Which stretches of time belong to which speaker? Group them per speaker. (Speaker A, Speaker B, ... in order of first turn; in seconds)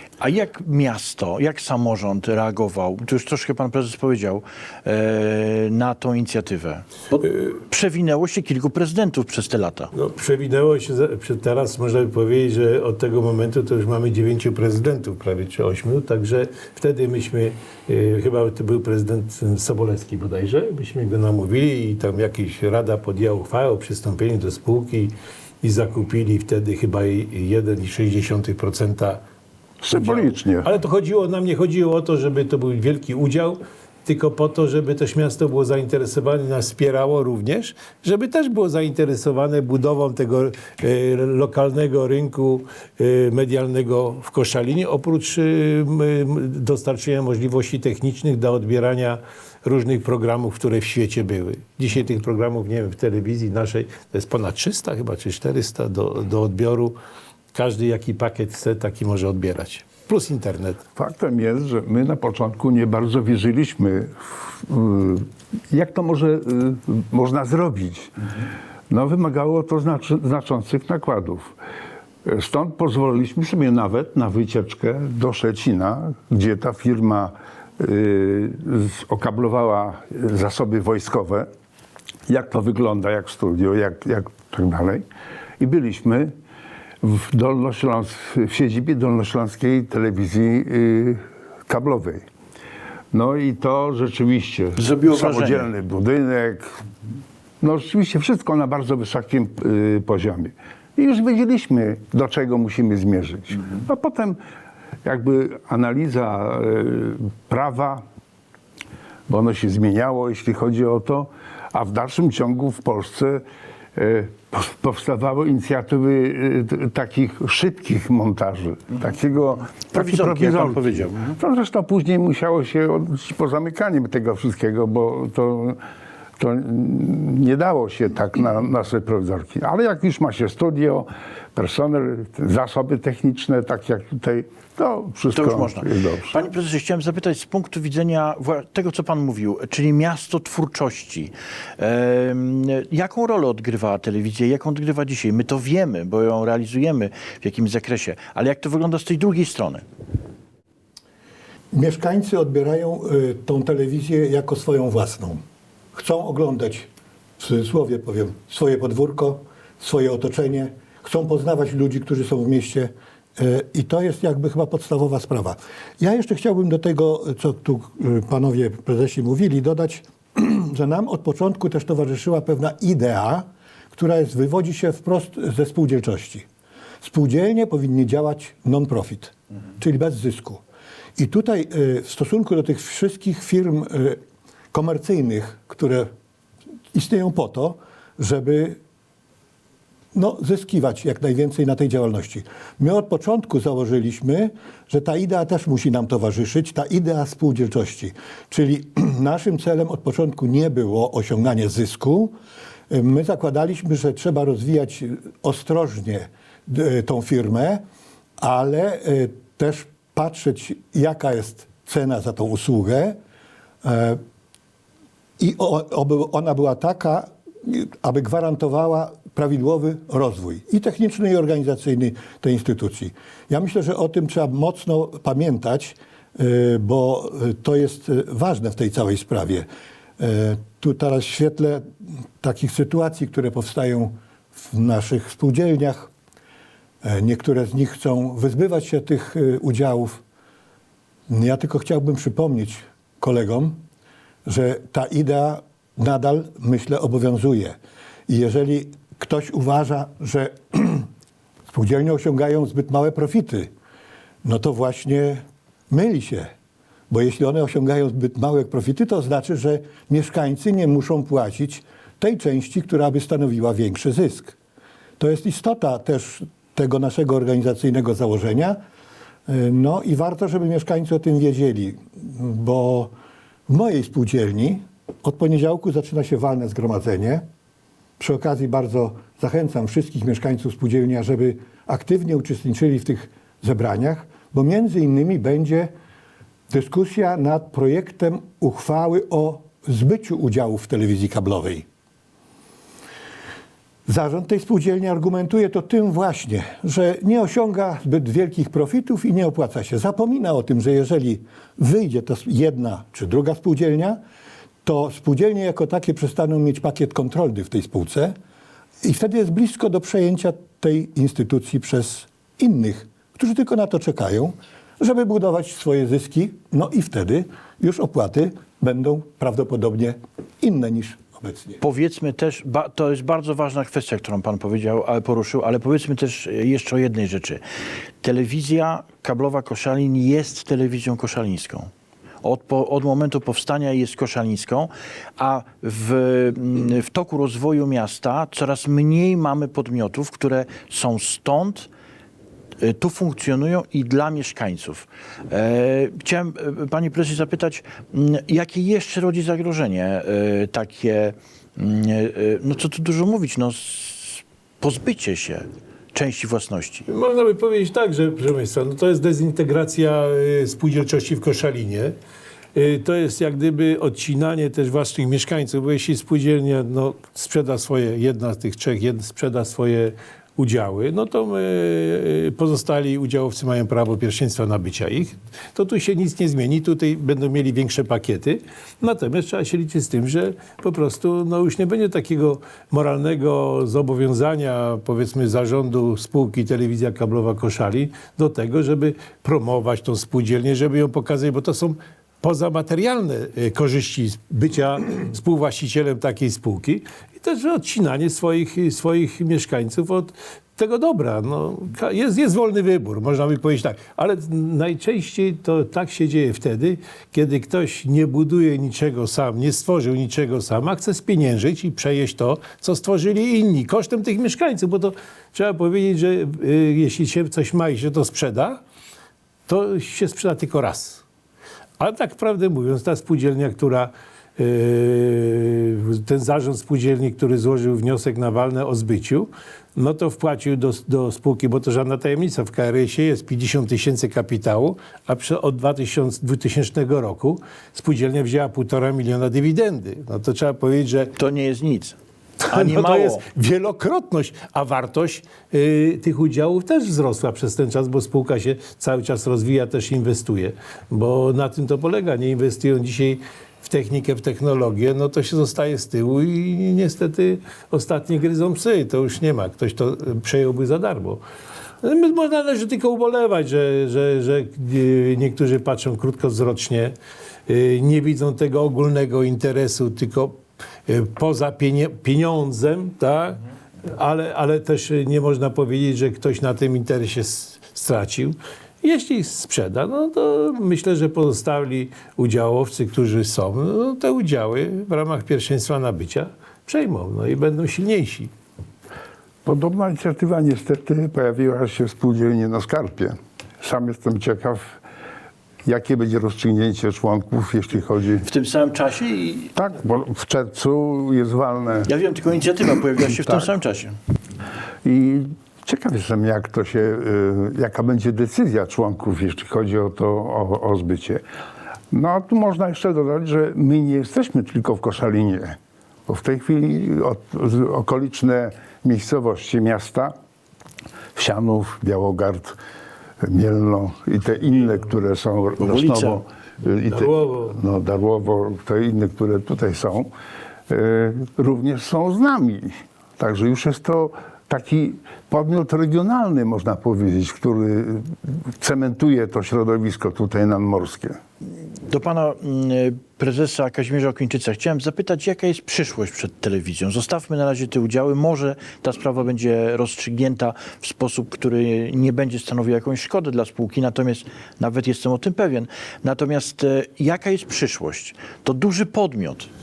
Speaker A: 0.2-9.9, 94.8-95.7, 119.9-121.4, 135.3-149.8, 321.8-327.6, 328.2-331.9, 332.4-341.9, 342.8-357.1, 441.4-442.2, 442.7-443.4, 498.4-499.7, 502.1-504.1, 525.8-526.4, 542.1-559.7
Speaker B: 9.9-29.2, 29.9-57.0, 57.5-60.8, 357.1-362.1, 362.8-418.8, 419.7-421.2, 422.0-441.3, 442.6-461.4, 462.0-467.1, 467.7-488.5, 527.1-527.8
Speaker C: 29.8-30.7, 61.0-71.5, 72.2-81.5, 82.3-85.0, 85.6-86.3, 87.0-92.2, 93.1-96.8, 97.6-104.4, 105.0-108.0, 109.3-113.4, 114.0-125.8, 126.4-136.3, 489.6-495.0, 495.9-498.5, 499.8-502.1, 503.4-503.7, 505.0-511.4, 512.1-520.3, 521.4-522.8, 523.4-530.3, 530.9-541.4
Speaker D: 151.7-155.4, 155.9-176.5, 177.0-180.6, 181.2-184.2, 184.7-186.1, 186.9-188.8, 190.1-202.3, 202.9-207.8, 208.4-213.2, 213.8-214.2, 215.4-229.7, 230.2-234.2, 234.7-236.1, 237.0-240.2, 241.3-243.8, 244.4-247.8, 248.3-251.1, 251.7-253.7, 254.4-256.5, 257.1-264.6, 265.2-268.8, 269.5-273.1, 273.7-277.4, 278.2-285.9, 286.7-291.9, 294.1-304.2, 304.9-308.4, 309.0-321.8